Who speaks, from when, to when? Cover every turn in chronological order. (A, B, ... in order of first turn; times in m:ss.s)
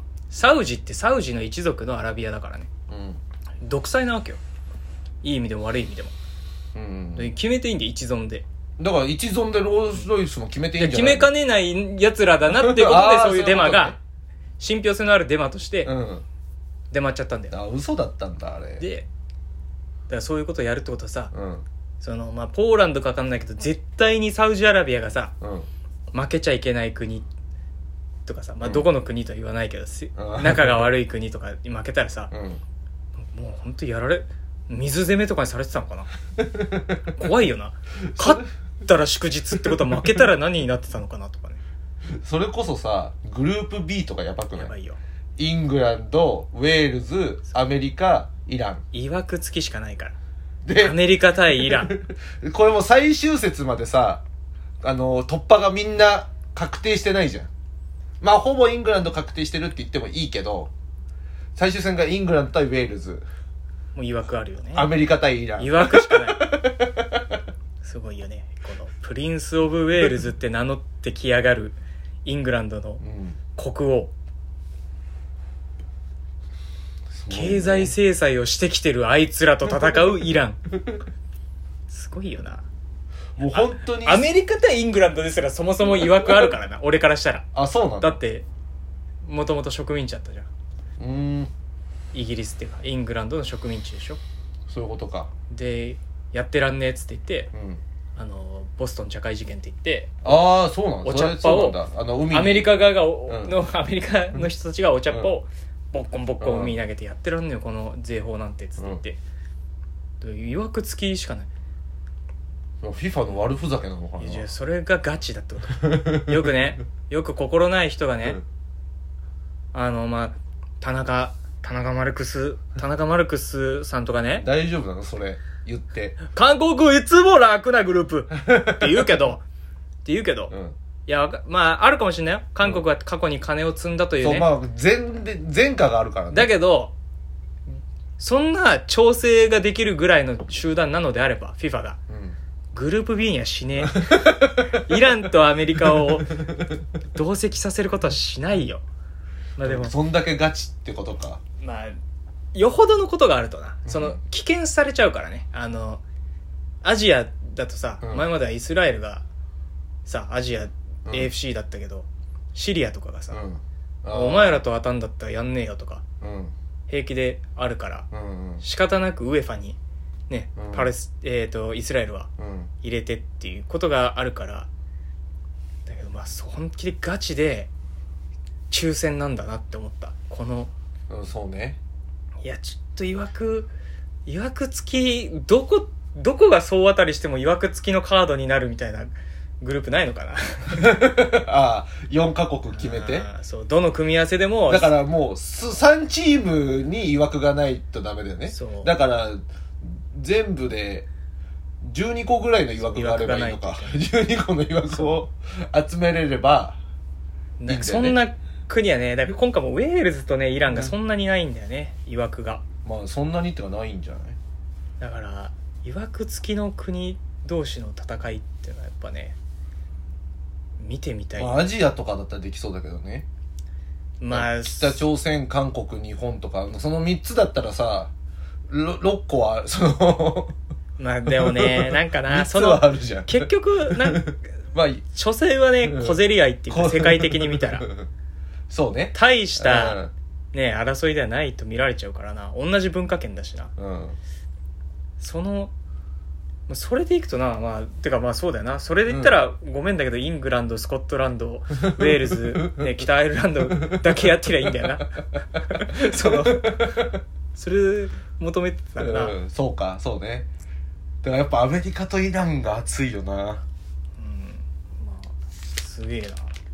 0:00.3-0:02.7 A
0:02.9-0:03.2 B
0:03.6-0:04.4 A
0:05.2-0:06.1 A
0:06.8-0:07.4 B
0:07.2-0:08.5 A
0:08.8-0:11.3 B
0:10.8-0:14.0 A
0:12.5-0:14.0 B
0:14.6-0:15.9 A
0:15.8-0:16.2 B
0:16.9-0:17.6 A
0:17.5-0:18.9 B
0:18.8-0:19.1 A
0:20.1-0:21.3 A
0:21.3-0:21.6 B
0:22.0-0:25.3 A
0:25.4-0:25.7 B
0:26.1-0:27.3 A
0:28.3-0:32.3 A
0:28.6-0:28.9 B
0:30.2-0:30.9 B
0:32.3-0:32.6 B
0:33.3-0:36.1 A
0:36.4-0:37.0 B
0:37.1-0:41.6 A
0:38.0-0:38.4 B
0:42.1-0:44.7 B
0:44.6-0:45.0 A
0:45.4-0:48.8 B
0:48.9-0:50.2 A
0:50.6-0:54.2 B
0:50.8-0:52.0 A
0:54.8-0:57.5 B
0:58.2-1:00.7 B
1:01.6-1:03.3 B
1:04.0-1:04.9 A
1:04.7-1:07.2 B
1:05.6-1:06.6 A
1:07.8-1:13.0 A
1:13.0-1:13.4 B
1:13.6-1:14.1 A
1:17.1-1:18.0 B
1:17.3-1:20.6 A
1:21.9-1:22.6 A
1:23.4-1:24.3 B
1:23.4-1:28.5 A
1:27.5-1:28.2 B
1:29.2-1:30.5 A
1:31.0-1:31.5 B
1:32.1-1:34.2 A
1:34.7-1:35.3 B
1:35.5-1:37.5 A
1:37.5-1:37.8 B
1:38.2-1:40.3 A
1:40.2-1:43.6 B
1:41.0-1:49.2 A
1:46.4-1:46.8 B
1:50.2-1:51.5 A
1:52.8-1:54.5 B
1:54.2-1:58.4 A
1:55.8-1:56.4 B
1:59.7-2:04.5 A
2:04.4-2:06.2 B
2:06.3-2:09.4 A
2:08.4-2:09.2 B
2:10.0-2:10.5 A
2:10.5-2:10.8 B
2:11.1-2:14.5 A
2:14.2-2:16.5 B
2:16.3-2:16.9 A
2:18.2-2:22.0 A
2:22.1-2:22.4 B
2:22.7-2:28.8 A
2:23.8-2:24.7 B
2:26.0-2:26.5 B
2:29.6-2:30.0 A
2:29.6-2:31.4 B
2:31.6-2:32.0 A
2:32.5-2:36.0 A
2:33.9-2:34.2 B
2:36.8-2:39.2 A
2:38.0-2:38.3 B
2:40.1-2:43.4 A
2:41.1-2:41.3 B
2:43.3-2:44.6 B
2:44.1-2:46.0 A
2:46.2-2:46.5 B
2:46.9-2:48.1 A
2:48.1-2:48.6 B
2:48.6-2:49.8 A
2:50.3-2:52.3 A
2:50.6-2:50.9 B
2:52.4-2:52.7 B
2:52.8-2:54.7 A
2:55.9-2:57.7 A
2:58.7-3:00.7 A
3:01.1-3:01.8 B
3:02.4-3:03.7 A
3:04.3-3:11.0 A
3:10.8-3:13.3 B
3:12.7-3:15.0 A
3:14.7-3:21.1 B
3:18.5-3:18.9 A
3:21.8-3:26.8 B
3:22.8-3:24.1 A
3:27.6-3:32.6 A
3:27.7-3:28.2 B
3:32.8-3:34.4 B
3:35.0-3:39.4 A
3:40.8-3:41.7 A
3:41.4-3:43.3 B
3:44.2-3:45.0 A
3:44.3-3:48.1 B
3:48.7-3:50.6 B
3:51.0-3:54.5 A
3:51.3-3:55.0 B
3:55.1-3:57.9 A
3:55.8-3:58.1 B
3:58.7-4:00.1 B
3:59.1-4:00.0 A
4:00.5-4:03.7 A
4:03.8-4:04.2 B
4:05.2-4:05.7 A
4:06.7-4:19.4 A
4:09.1-4:09.4 B
4:11.7-4:13.0 B
4:13.6-4:14.7 B
4:15.8-4:17.2 B
4:19.0-4:20.5 B
4:21.2-4:23.6 B
4:24.2-4:26.6 A